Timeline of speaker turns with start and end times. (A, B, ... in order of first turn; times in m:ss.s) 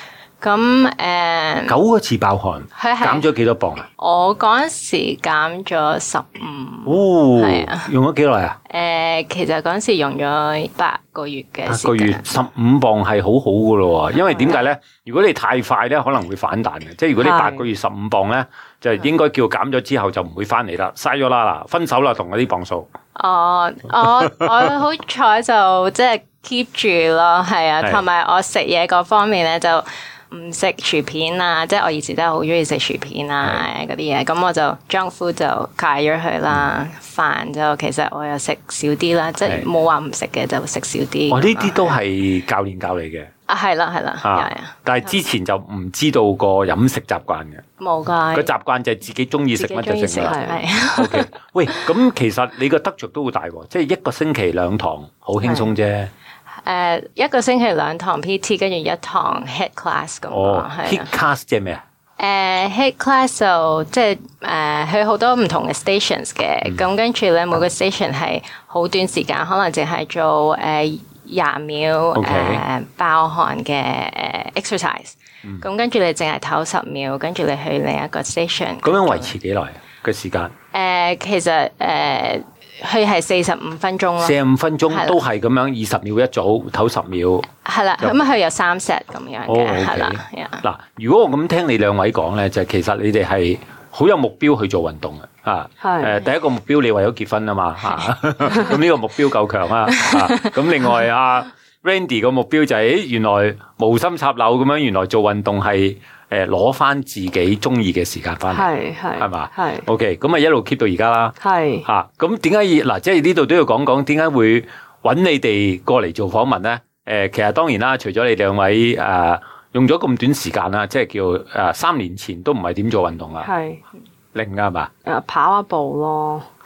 0:00.4-0:01.8 A
0:01.7-0:03.8 B
0:02.7-0:03.2 A
0:04.0-0:07.9 A
0:06.8-0:08.6 B
0:08.7-0:12.2 A
0:11.7-0:22.9 B
0:17.2-0:17.7 C
0:23.1-0:42.0 A
0:39.4-0:39.7 B
0:41.3-0:43.3 B
0:43.5-0:45.1 A
0:44.2-0:47.6 B
0:47.8-0:48.5 A
0:48.3-0:50.4 B
0:49.5-0:51.9 A
0:50.2-0:50.6 C
0:50.9-0:56.1 B
0:55.4-0:55.7 A
0:56.6-1:01.2 A
1:00.3-1:01.8 B
1:02.2-1:19.3 A
1:12.1-1:12.6 B
1:18.8-1:20.5 B
1:20.7-1:24.4 A
1:24.2-1:28.2 B
1:24.9-1:25.2 A
1:27.6-1:30.6 A
1:29.5-2:03.5 B
1:35.8-1:36.2 C
1:39.9-1:40.3 A
1:48.5-1:49.9 C
1:51.4-1:51.8 C
2:03.4-2:03.8 C
2:04.3-2:04.9 B
2:05.0-2:06.4 C